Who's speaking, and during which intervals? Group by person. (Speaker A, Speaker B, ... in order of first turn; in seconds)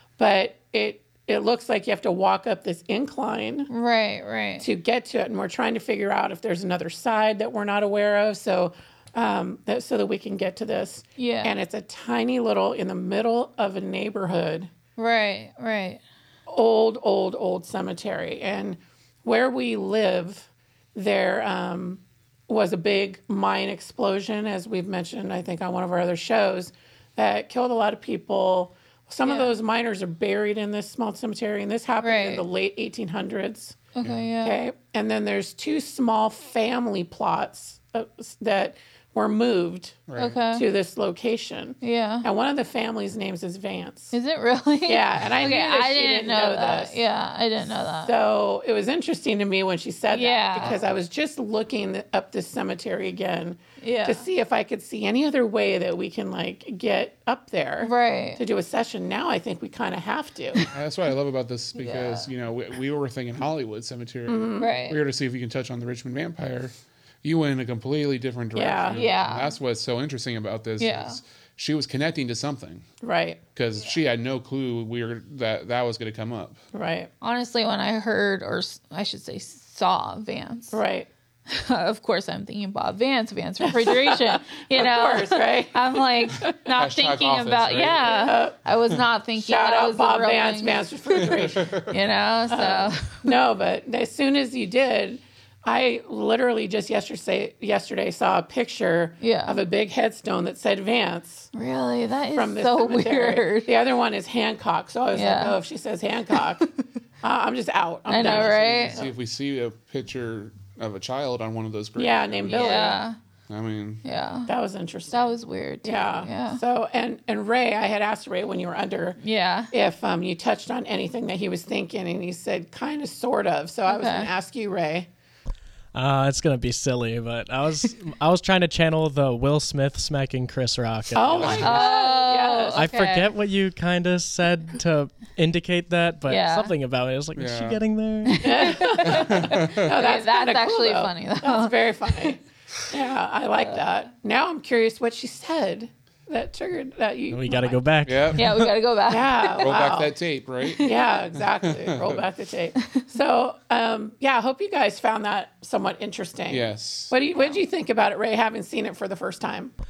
Speaker A: 0.2-3.7, 4.6-14.7, 16.5-33.8, 34.4-44.1, 44.9-47.0, 48.0-60.7, 64.3-64.7, 68.5-69.1, 73.0-73.4, 76.7-77.1, 80.7-81.1, 83.6-86.6, 88.0-88.6, 89.4-91.8, 92.5-101.5, 102.3-106.7, 107.2-109.1, 112.0-113.0, 114.5-115.3, 115.8-119.2, 119.7-125.1, 131.1-132.8, 138.4-147.8, 149.1-150.1, 150.8-159.7
Speaker B: 3.7-4.7, 11.2-11.5, 15.0-16.0, 29.2-29.5, 32.0-32.4, 33.9-34.6, 40.2-40.7, 41.8-42.2, 44.1-48.1, 50.1-50.8, 53.8-54.2, 57.8-58.4, 61.8-62.3, 64.6-65.0, 68.9-69.5, 70.8-71.2, 77.2-80.8, 81.5-93.2, 99.2-99.6, 101.5-103.7, 105.1-105.6, 108.1-109.0, 112.5-113.2, 114.0-114.5, 115.1-116.6, 119.2-119.7, 123.9-124.3, 131.4-133.3, 136.3-136.7, 138.2-142.3, 148.3-149.9, 150.6-151.0, 157.3-157.6
Speaker C: 40.1-40.4, 60.7-72.9, 73.5-76.6, 86.7-88.1, 91.2-92.0, 108.2-112.8, 113.5-114.0, 131.3-131.8, 137.3-137.8, 139.0-139.9, 148.0-148.4, 149.6-152.2, 156.5-157.1
Speaker D: 125.9-131.8, 132.8-138.9, 147.3-148.7